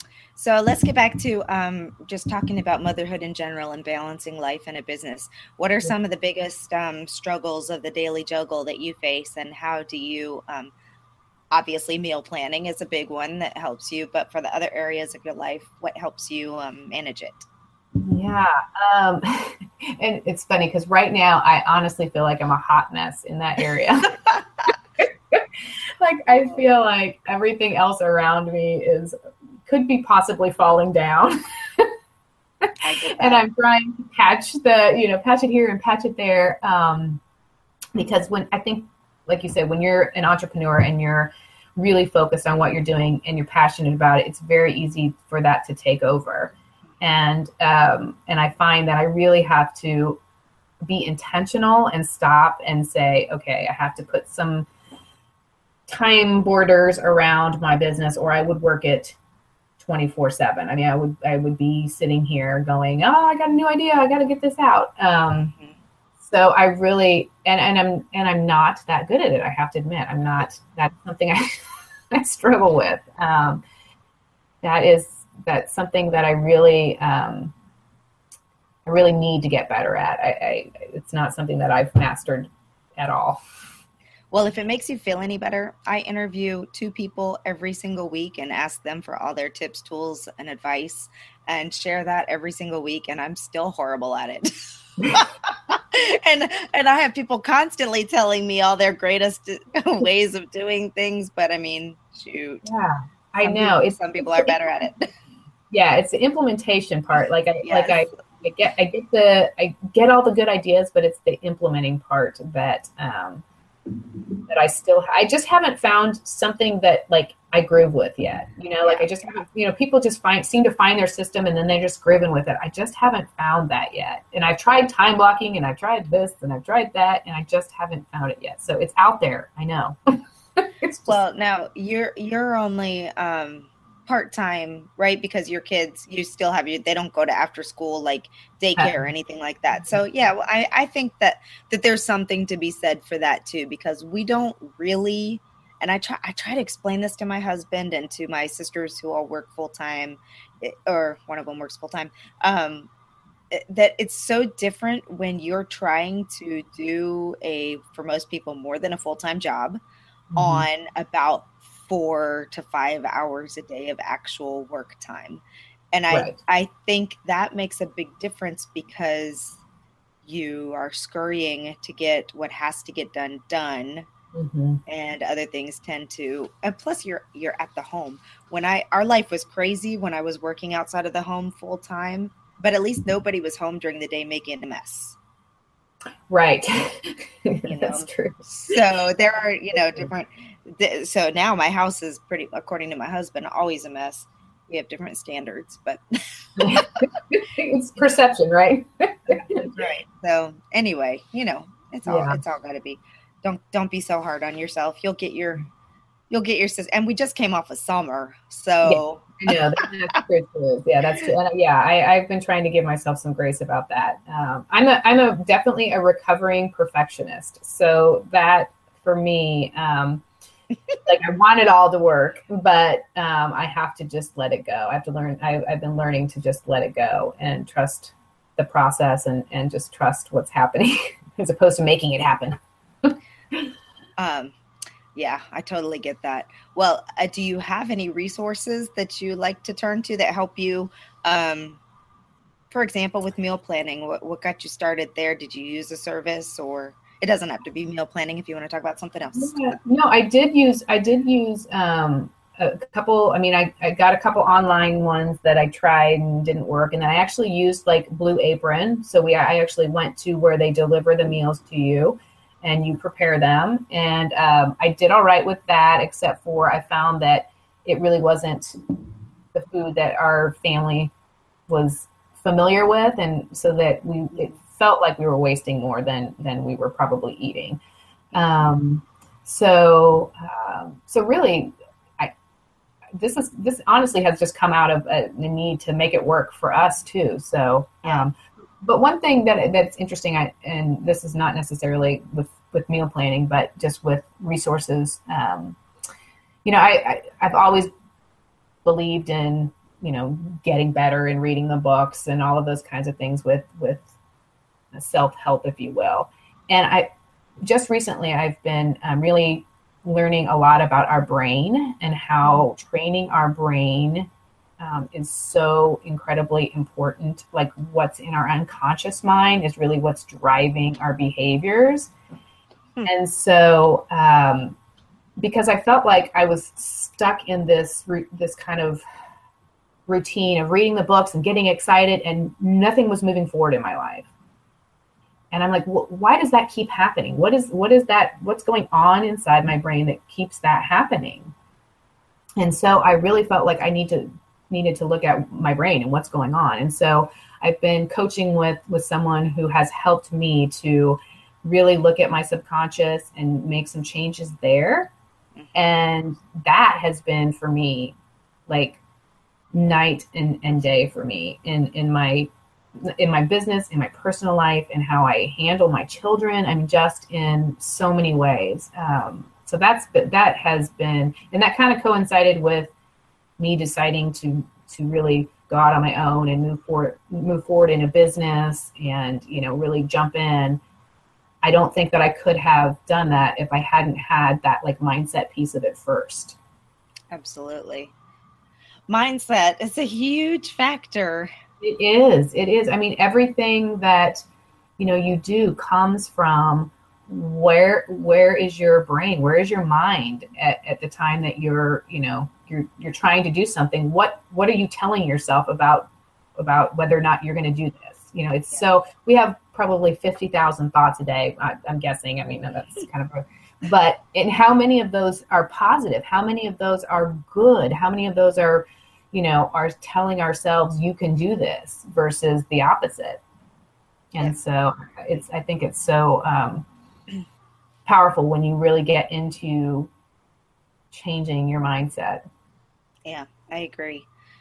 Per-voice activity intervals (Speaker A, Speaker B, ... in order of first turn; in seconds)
Speaker A: 0.4-10.7, 11.5-17.5, 32.8-33.4, 84.3-94.5, 95.1-102.7, 103.4-105.1, 107.6-108.1, 118.8-119.1, 131.1-152.9, 153.5-159.8, 160.4-165.4, 165.9-169.6, 170.2-174.1, 174.9-185.2, 187.7-197.1, 199.6-205.7, 206.3-209.8, 234.2-234.5, 235.2-241.8, 242.7-249.8, 387.3-388.1, 389.1-391.5, 433.3-434.3
Speaker B: 18.0-24.2, 25.0-29.1, 29.7-31.9, 32.6-37.2, 38.0-50.2, 50.8-54.7, 55.9-59.2, 59.8-65.5, 66.2-73.6, 74.6-77.5, 78.8-83.4, 102.6-104.5, 105.7-113.4, 114.4-130.0, 130.6-131.2, 138.8-139.0, 160.3-160.7, 166.1-166.4, 174.3-174.8, 186.3-188.8, 196.6-199.8, 202.1-202.4, 208.8-220.2, 221.0-233.6, 249.3-268.9, 269.5-271.1, 271.7-277.8, 278.3-282.3, 283.1-295.8, 296.6-297.9, 298.9-304.1, 304.9-307.1, 307.6-322.1, 323.1-324.8, 325.4-329.0, 330.1-334.3, 335.5-341.5, 342.6-355.1, 355.7-358.2, 358.7-359.0, 359.7-372.9, 373.6-380.8, 381.6-386.6, 391.8-394.4, 395.0-423.4, 424.3-426.9, 428.1-430.1, 431.1-432.4